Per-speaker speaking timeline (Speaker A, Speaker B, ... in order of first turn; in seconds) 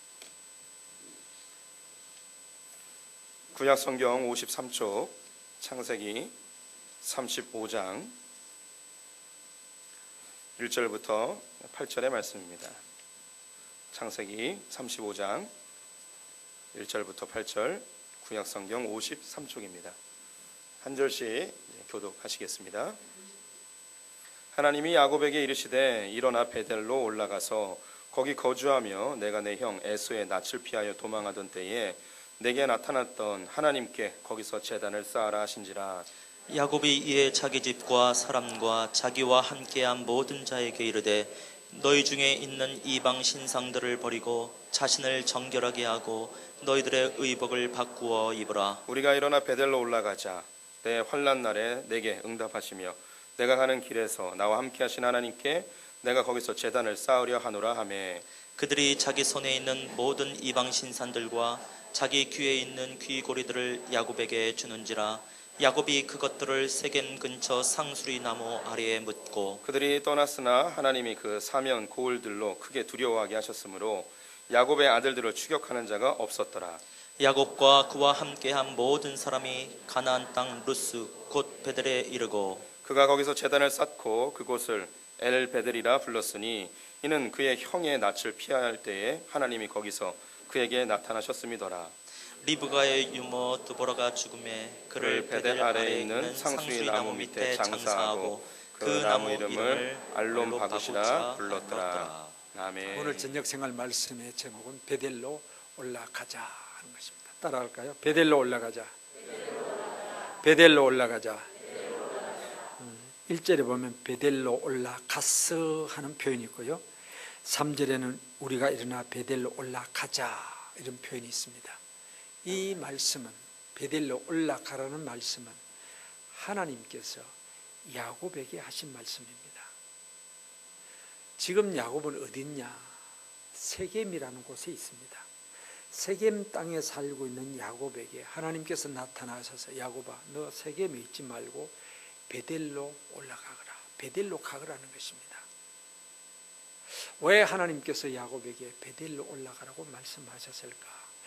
Speaker A: 3.5-6.3, 7.0-8.1, 10.6-12.8, 13.9-15.5, 16.7-20.0, 20.8-23.0, 24.5-36.1, 48.9-58.2, 69.6-76.8, 82.8-91.9, 95.0-103.2
Speaker B: 36.5-48.8, 58.6-69.6, 77.2-82.7, 92.4-102.4
Speaker C: 102.9-108.9, 110.4-111.5, 112.8-116.8, 117.5-121.8, 122.4-125.6, 126.3-127.3, 127.9-129.7, 131.4-132.9, 133.5-135.3, 135.9-141.7, 142.3-145.4, 147.2-151.1